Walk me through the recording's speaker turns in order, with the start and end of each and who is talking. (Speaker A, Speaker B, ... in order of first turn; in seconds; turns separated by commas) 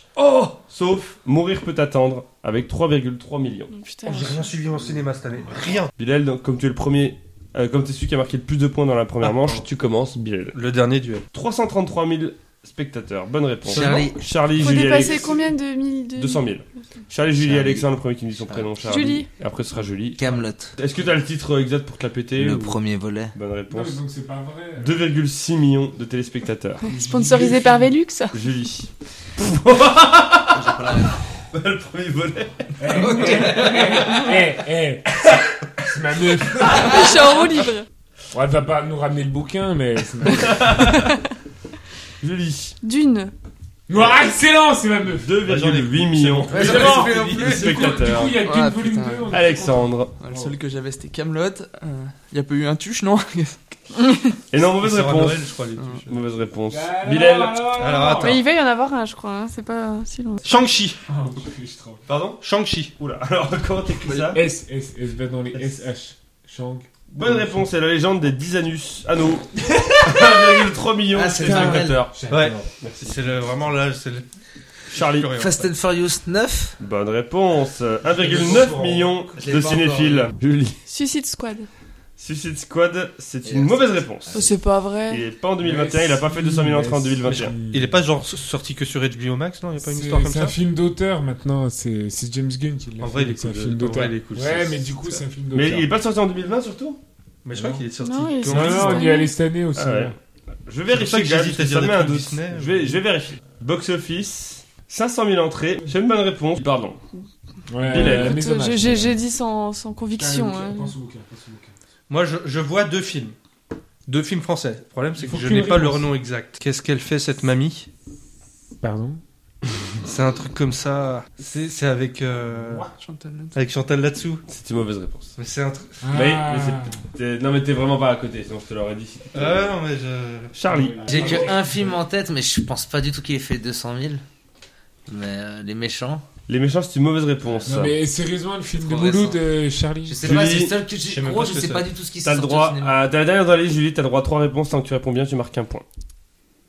Speaker A: 0.2-0.4, Speaker B: 0.3-3.8, Speaker C: 3.7-4.4, Speaker A: 4.0-5.9, Speaker B: 6.0-10.6, Speaker A: 9.2-9.6, Speaker A: 10.5-11.2, Speaker B: 11.3-15.5, Speaker A: 13.7-14.1, Speaker D: 13.7-14.3, Speaker C: 14.5-16.5, Speaker B: 16.2-22.8, Speaker D: 17.4-17.9, Speaker D: 18.5-18.7, Speaker C: 18.8-19.3, Speaker D: 20.2-20.8, Speaker D: 22.4-23.3, Speaker B: 23.4-24.0, Speaker E: 23.7-25.1, Speaker B: 24.8-26.9, Speaker E: 26.8-27.9, Speaker C: 26.9-28.4, Speaker B: 28.3-32.7, Speaker D: 30.5-31.1, Speaker E: 32.8-35.1, Speaker D: 32.9-34.3, Speaker E: 35.8-36.9, Speaker B: 36.6-36.9, Speaker C: 36.7-37.9, Speaker E: 38.3-40.9, Speaker B: 40.3-41.1, Speaker C: 40.9-41.2, Speaker B: 42.2-42.8, Speaker C: 42.8-43.3, Speaker E: 43.9-45.4, Speaker B: 45.2-48.4, Speaker A: 45.4-47.9, Speaker E: 46.5-50.5, Speaker D: 46.5-47.6, Speaker F: 48.4-49.4, Speaker B: 49.3-50.1, Speaker F: 50.2-53.8, Speaker C: 54.0-54.4, Speaker B: 54.5-55.4, Speaker A: 54.6-56.2, Speaker B: 56.1-57.7, Speaker E: 56.7-58.4, Speaker A: 57.7-58.4, Speaker C: 58.1-60.5, Speaker A: 60.4-61.0, Speaker E: 61.1-62.0, Speaker B: 62.1-62.4, Speaker A: 62.4-62.9, Speaker B: 63.0-64.4, Speaker E: 64.3-67.6, Speaker B: 67.1-72.1, Speaker D: 71.1-72.0, Speaker E: 71.4-72.7, Speaker A: 72.3-74.3, Speaker B: 72.8-73.2, Speaker A: 74.9-75.7, Speaker B: 74.9-75.3, Speaker D: 75.4-76.8, Speaker B: 76.8-80.8, Speaker E: 78.2-78.9, Speaker A: 78.2-79.1, Speaker D: 79.3-80.3, Speaker C: 80.9-81.7, Speaker B: 82.2-84.5, Speaker D: 83.4-84.6, Speaker C: 84.3-85.2, Speaker B: 85.1-87.5, Speaker E: 85.6-88.0, Speaker A: 87.3-90.5, Speaker E: 89.8-95.9, Speaker A: 93.0-95.2, Speaker B: 95.5-97.0, Speaker A: 97.4-99.0, Speaker E: 97.5-97.8, Speaker C: 98.0-99.3, Speaker E: 98.5-100.1, Speaker B: 99.8-100.1, Speaker B: 100.7-107.0, Speaker A: 100.9-103.0, Speaker E: 107.7-109.2, Speaker B: 107.9-108.4, Speaker C: 107.9-110.9, Speaker E: 110.2-111.7, Speaker A: 112.1-113.4, Speaker A: 114.1-117.9, Speaker E: 115.2-116.1, Speaker E: 118.8-119.2, Speaker A: 120.0-122.9, Speaker F: 123.0-123.5, Speaker A: 123.5-124.4, Speaker B: 124.5-125.4, Speaker A: 125.4-126.1, Speaker E: 126.0-127.0, Speaker B: 126.1-129.7, Speaker A: 129.3-131.5, Speaker B: 130.5-131.4, Speaker E: 130.7-131.9, Speaker D: 131.1-134.2, Speaker D: 135.1-136.2, Speaker B: 136.5-137.9, Speaker E: 137.6-140.3, Speaker D: 138.7-139.4, Speaker D: 140.1-143.0, Speaker B: 140.2-140.8, Speaker A: 141.0-141.9, Speaker B: 142.2-145.8